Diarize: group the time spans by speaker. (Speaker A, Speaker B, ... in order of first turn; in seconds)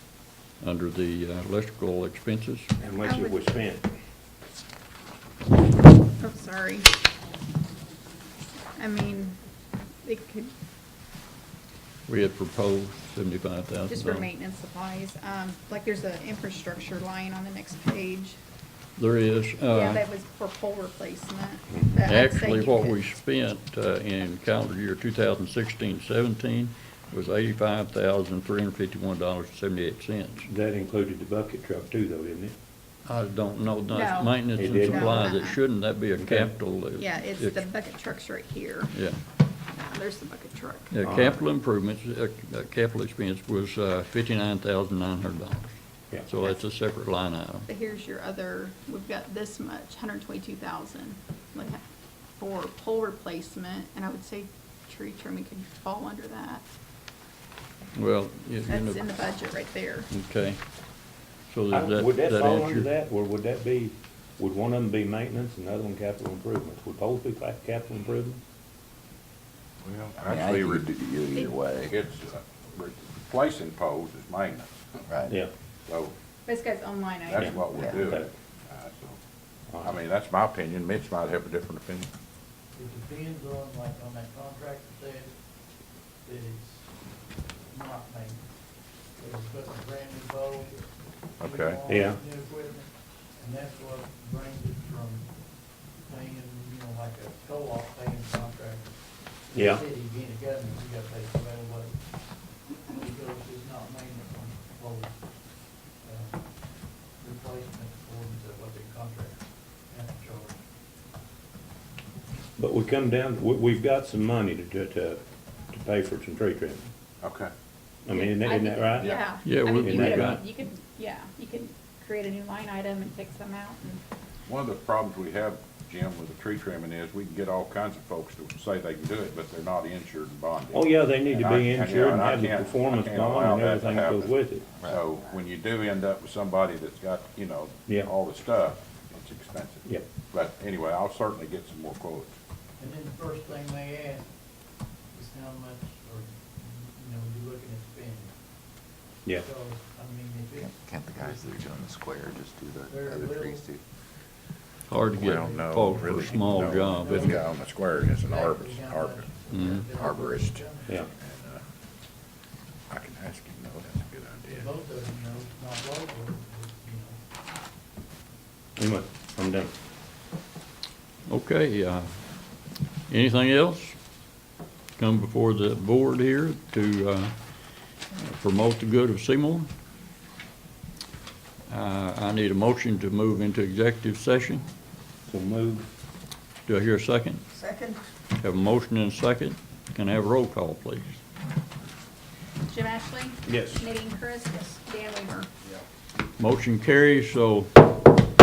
Speaker A: 0.6-2.7, 12.1-14.3, 19.0-20.0, 22.1-30.5, 33.0-37.7, 38.9-39.2, 40.9-47.7, 57.9-59.0, 60.1-60.6, 61.5-62.9, 119.5-120.4, 154.9-157.4, 159.5-159.8, 171.3-172.1, 173.1-174.0, 175.0-179.7, 181.7-184.6, 186.7-187.4, 188.4-191.2, 196.4-197.8
Speaker B: 2.8-3.9, 30.4-32.5, 34.6-35.3, 36.2-36.6, 41.0-41.4, 61.7-68.4, 77.4-78.3, 79.7-80.0, 91.9-92.2, 99.5-99.8, 112.6-115.2, 115.7-116.9, 118.0-120.4, 130.7-134.7, 168.8-169.7, 185.3-185.9, 193.5-193.8
Speaker C: 3.0-3.4, 6.2-6.9, 8.8-9.4, 10.0-10.5, 13.9-18.4, 19.7-23.1, 33.9-35.6, 37.0-38.9, 39.7-40.9, 47.7-51.8, 52.4-56.7, 58.7-60.1, 71.3-71.6, 76.5-77.9, 118.1-124.0, 187.6-188.0, 192.7-195.5
Speaker D: 69.8-70.9, 71.9-74.9, 75.9-76.1, 77.3-79.2, 79.8-82.1, 91.4-91.8, 117.2-117.5, 119.0-119.3, 124.5-142.4, 155.2-161.6, 162.9-164.7
Speaker E: 70.2-71.9, 77.8-78.1, 150.6-153.8
Speaker F: 82.7-85.3, 86.2-86.9, 87.7-88.4, 89.2-90.9, 91.4-95.3, 96.0-98.9, 99.5-102.0, 102.9-105.1, 106.0-106.4, 107.2-109.4, 109.9-110.6, 142.8-144.3, 145.1-148.3, 149.4-151.3, 152.9-153.6, 156.0-161.0, 164.5-167.2